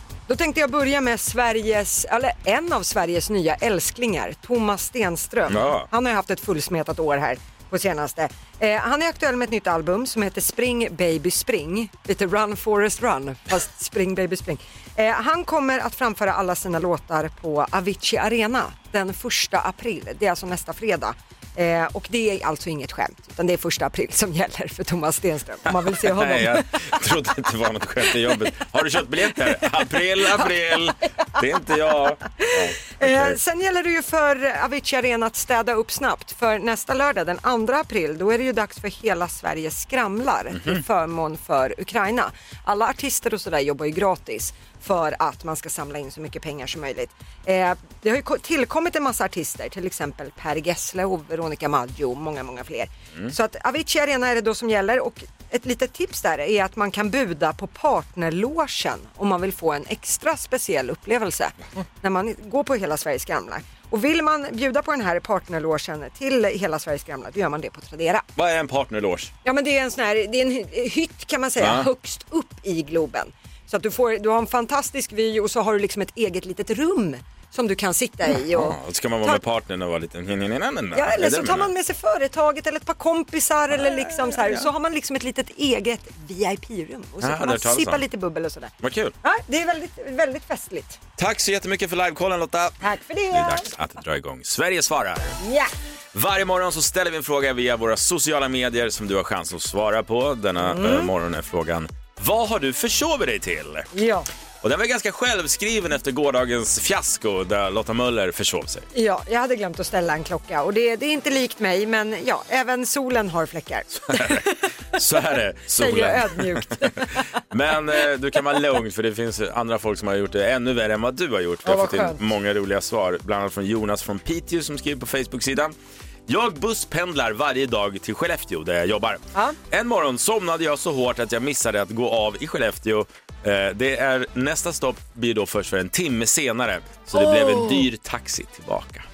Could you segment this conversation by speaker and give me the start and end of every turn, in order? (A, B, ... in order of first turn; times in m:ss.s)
0:00.3-0:26.7 A
0:05.5-0:05.9 B
0:25.7-0:33.4 B
0:29.4-0:31.1 A
0:32.4-1:08.3 A
0:40.6-0:40.8 B
1:08.4-1:09.3 B
1:09.4-1:19.4 A
1:11.6-1:11.9 B
1:18.5-1:21.7 B
1:21.0-1:31.0 A
1:27.2-1:28.0 B
1:28.8-1:29.2 B
1:31.2-1:35.4 B
1:32.8-1:33.7 A
1:35.4-1:35.7 A
1:36.1-1:43.9 B
1:40.6-1:41.1 A
1:43.9-1:44.3 A
1:44.6-1:48.9 B
1:48.9-1:54.6 A
1:54.0-1:56.8 B
1:55.7-1:57.3 A
1:57.5-2:05.8 B
2:01.6-2:02.2 A
2:06.3-2:19.0 B
2:17.1-2:17.9 A